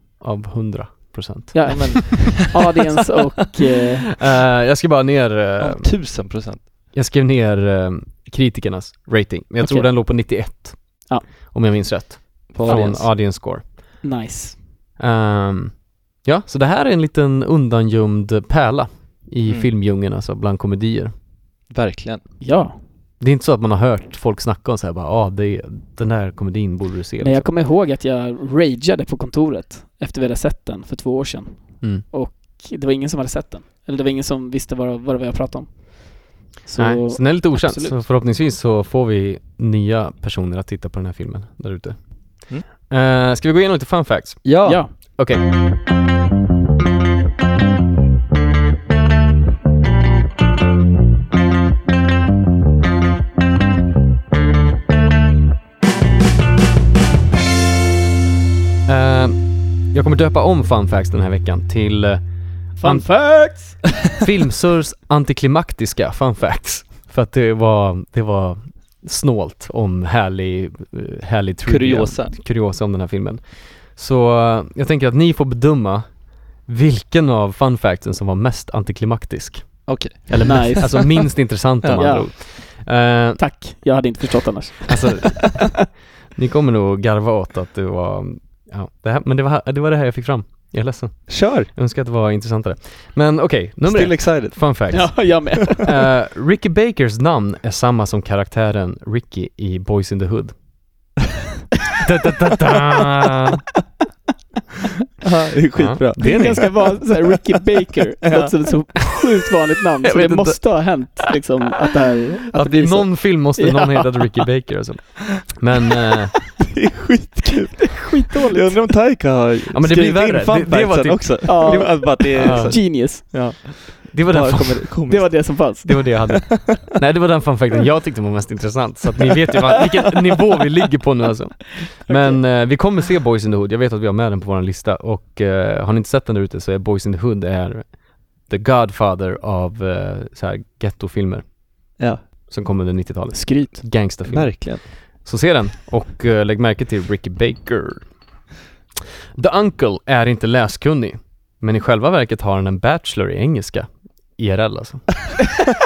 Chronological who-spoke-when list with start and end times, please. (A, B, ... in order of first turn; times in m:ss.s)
0:00.2-0:02.0 A
0:01.5-0:04.1 B
0:01.7-0:02.6 C
0:04.3-0:05.9 A
0:05.6-0:06.7 C
0:06.9-0:13.6 A
0:09.6-0:09.9 B
0:11.1-0:11.5 B
0:12.5-0:13.1 C
0:12.7-0:13.1 B
0:14.0-0:14.6 B
0:15.0-0:21.1 A
0:19.4-0:19.7 C
0:21.7-0:22.3 C
0:22.4-0:22.8 B
0:23.2-0:27.5 A
0:27.2-0:38.0 B
0:36.8-0:45.5 A
0:44.4-0:44.8 C
0:44.6-0:44.9 B
0:58.9-1:23.6 A
1:02.8-1:03.9 B
1:11.6-1:12.4 C
1:19.9-1:21.0 C
1:20.4-1:21.3 B
1:21.8-1:22.2 C
1:22.0-1:25.6 B
1:24.9-1:25.7 A
1:26.4-1:40.6 A
1:31.3-1:31.7 C
1:33.8-1:35.1 C
1:34.9-1:36.0 B
1:42.0-1:43.6 A
1:45.2-1:47.1 C
1:45.8-1:46.7 A
1:46.2-1:54.4 B
1:48.2-1:48.5 C
1:50.0-1:50.9 A
1:52.5-1:56.4 A
1:56.7-2:05.9 C
1:57.8-1:58.9 B
1:59.7-2:03.4 A
2:01.4-2:03.4 B
2:04.1-2:28.2 A
2:05.1-2:06.2 B
2:12.1-2:12.4 B
2:22.0-2:22.3 C
2:23.3-2:23.9 B
2:24.1-2:24.9 C
2:29.4-2:35.3 A